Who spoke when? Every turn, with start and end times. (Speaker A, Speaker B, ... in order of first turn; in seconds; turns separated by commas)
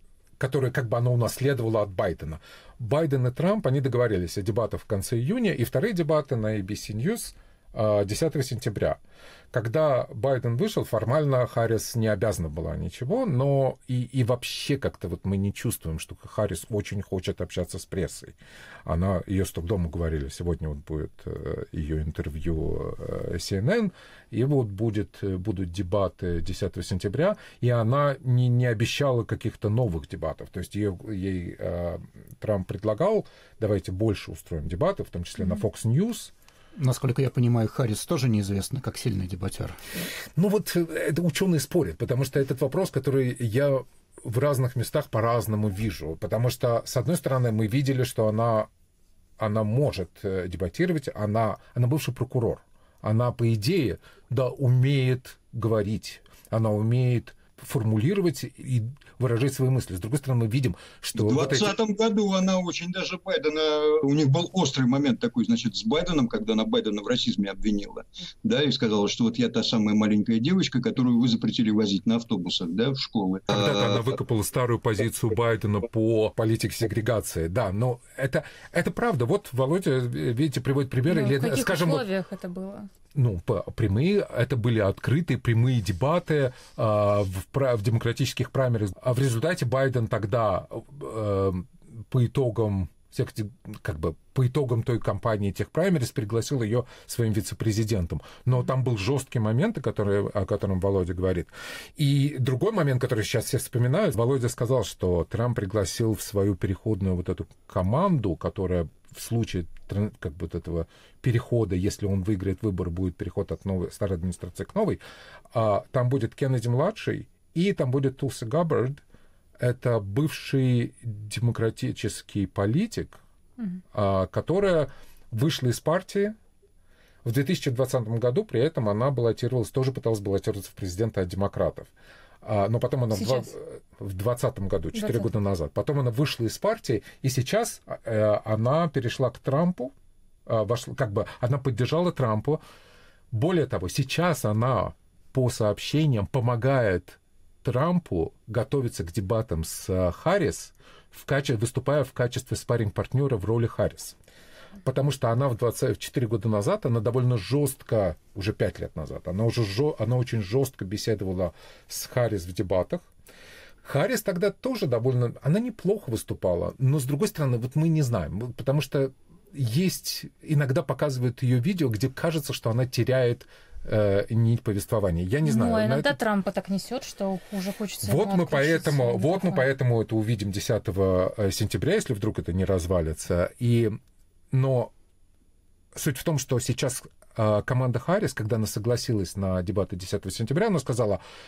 Speaker A: 0.4-9.0, Speaker A: 9.5-18.4, Speaker A: 18.9-36.3, Speaker B: 36.8-39.8, Speaker A: 40.4-48.7, Speaker A: 49.4-61.7, Speaker C: 61.1-74.1, Speaker A: 73.5-82.0, Speaker D: 81.1-82.9, Speaker A: 83.1-115.0, Speaker A: 115.5-119.0, Speaker A: 119.6-123.2, Speaker A: 123.9-126.4, Speaker A: 127.2-131.9, Speaker A: 132.4-139.9, Speaker D: 133.1-133.5, Speaker D: 134.9-135.3, Speaker A: 140.4-142.6, Speaker A: 143.3-154.2, Speaker A: 154.8-163.1, Speaker A: 163.8-176.2, Speaker D: 175.4-179.7, Speaker A: 178.0-184.0, Speaker A: 184.5-184.9, Speaker A: 185.9-191.2